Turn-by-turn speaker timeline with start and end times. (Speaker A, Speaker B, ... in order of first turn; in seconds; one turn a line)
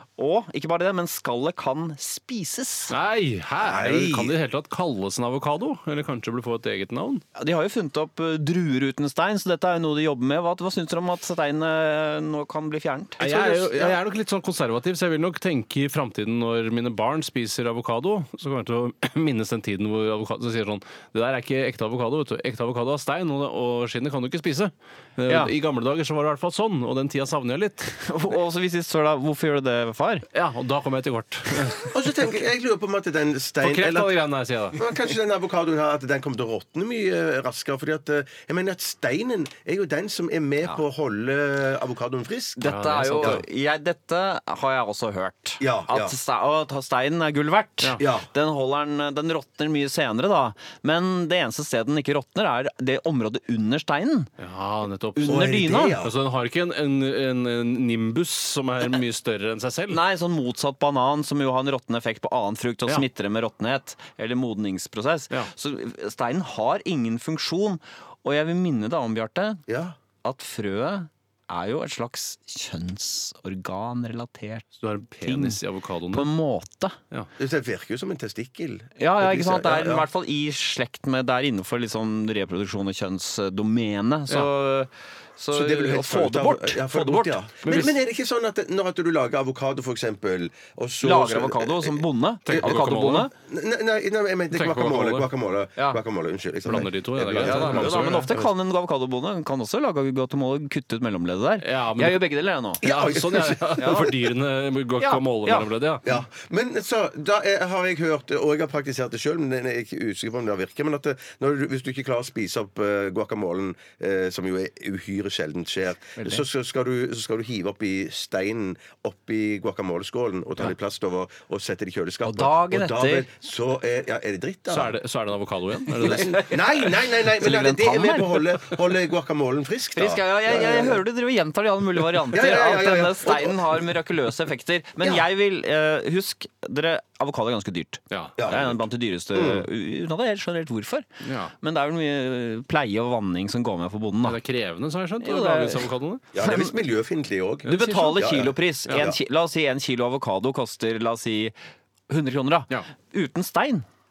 Speaker A: 0.2-3.0
Speaker B: 2.9-7.2
Speaker C: 3.6-4.3
Speaker A: 7.3-13.9
Speaker B: 13.2-27.9
Speaker A: 28.0-30.2
Speaker B: 30.3-31.8
Speaker C: 31.9-34.1
Speaker B: 33.6-34.8
Speaker C: 34.7-42.6
Speaker A: 42.6-54.3
Speaker B: 42.6-43.4
Speaker C: 43.2-43.4
Speaker C: 45.6-46.1
Speaker C: 48.0-48.3
Speaker B: 54.4-60.0
Speaker A: 55.1-56.0
Speaker C: 55.2-56.1
Speaker A: 59.9-69.6
Speaker C: 69.7-70.0
Speaker A: 70.2-74.7
Speaker B: 74.8-76.3
Speaker A: 75.2-77.0
Speaker C: 77.4-80.1
Speaker A: 79.0-87.4
Speaker C: 85.5-98.5
Speaker B: 87.6-88.0
Speaker A: 91.0-93.3
Speaker B: 92.5-93.3
Speaker B: 94.5-95.3
Speaker B: 96.6-98.3
Speaker A: 97.4-102.8
Speaker B: 101.6-102.2
Speaker C: 102.8-104.2
Speaker B: 102.8-106.0
Speaker A: 103.8-104.1
Speaker A: 105.0-105.7
Speaker C: 106.0-125.0
Speaker A: 116.2-116.4
Speaker A: 122.2-123.3
Speaker B: 124.7-126.5
Speaker C: 125.9-131.0
Speaker A: 126.0-128.7
Speaker A: 129.9-141.1
Speaker C: 132.1-133.9
Speaker B: 138.1-138.4
Speaker C: 138.4-139.7
Speaker B: 141.2-141.5
Speaker A: 141.6-144.4
Speaker B: 144.2-146.2
Speaker A: 145.2-146.7
Speaker C: 146.3-149.2
Speaker B: 147.7-148.3
Speaker A: 147.7-151.5
Speaker A: 152.1-153.8